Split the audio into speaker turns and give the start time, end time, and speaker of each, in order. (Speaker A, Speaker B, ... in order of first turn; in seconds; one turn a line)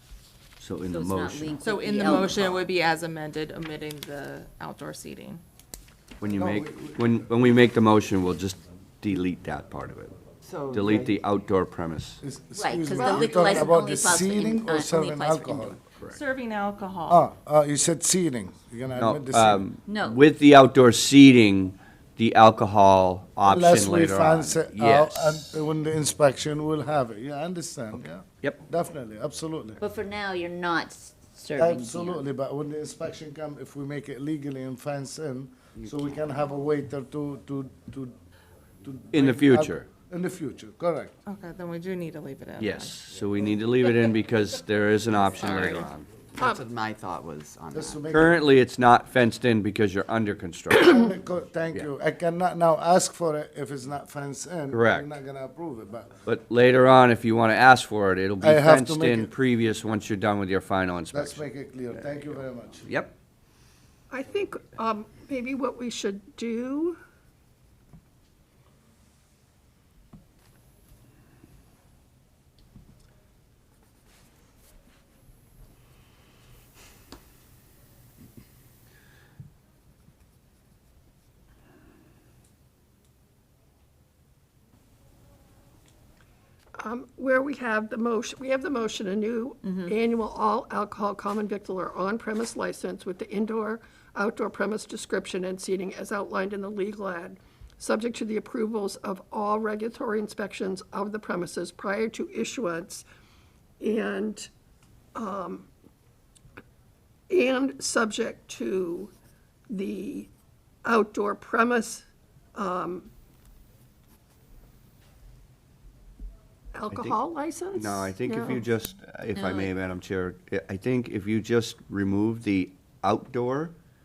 Speaker A: 0.6-1.5
Speaker B: 0.9-2.7
Speaker C: 1.6-5.4
Speaker A: 6.2-10.2
Speaker D: 6.3-7.2
Speaker E: 10.4-11.2
Speaker A: 10.7-12.2
Speaker D: 12.2-15.8
Speaker B: 12.6-15.9
Speaker F: 13.0-13.7
Speaker C: 16.1-17.3
Speaker D: 17.1-19.6
Speaker A: 19.0-25.3
Speaker B: 19.9-20.2
Speaker D: 23.5-29.8
Speaker B: 29.8-32.2
Speaker D: 31.6-38.2
Speaker D: 38.8-41.1
Speaker A: 39.1-39.9
Speaker C: 41.3-43.0
Speaker A: 42.6-46.1
Speaker B: 45.5-45.8
Speaker E: 46.4-48.1
Speaker D: 47.7-48.4
Speaker A: 48.1-51.1
Speaker D: 50.8-56.2
Speaker A: 54.7-55.1
Speaker A: 56.3-61.5
Speaker D: 58.4-59.3
Speaker D: 61.1-63.0
Speaker A: 62.9-63.1
Speaker F: 64.1-67.0
Speaker F: 86.8-103.0
Speaker F: 103.8-104.5
Speaker F: 105.2-105.7
Speaker F: 107.3-109.1
Speaker F: 109.7-110.3
Speaker F: 110.8-113.1
Speaker F: 116.7-118.6
Speaker A: 116.9-117.2
Speaker A: 117.7-123.8
Speaker B: 119.3-119.7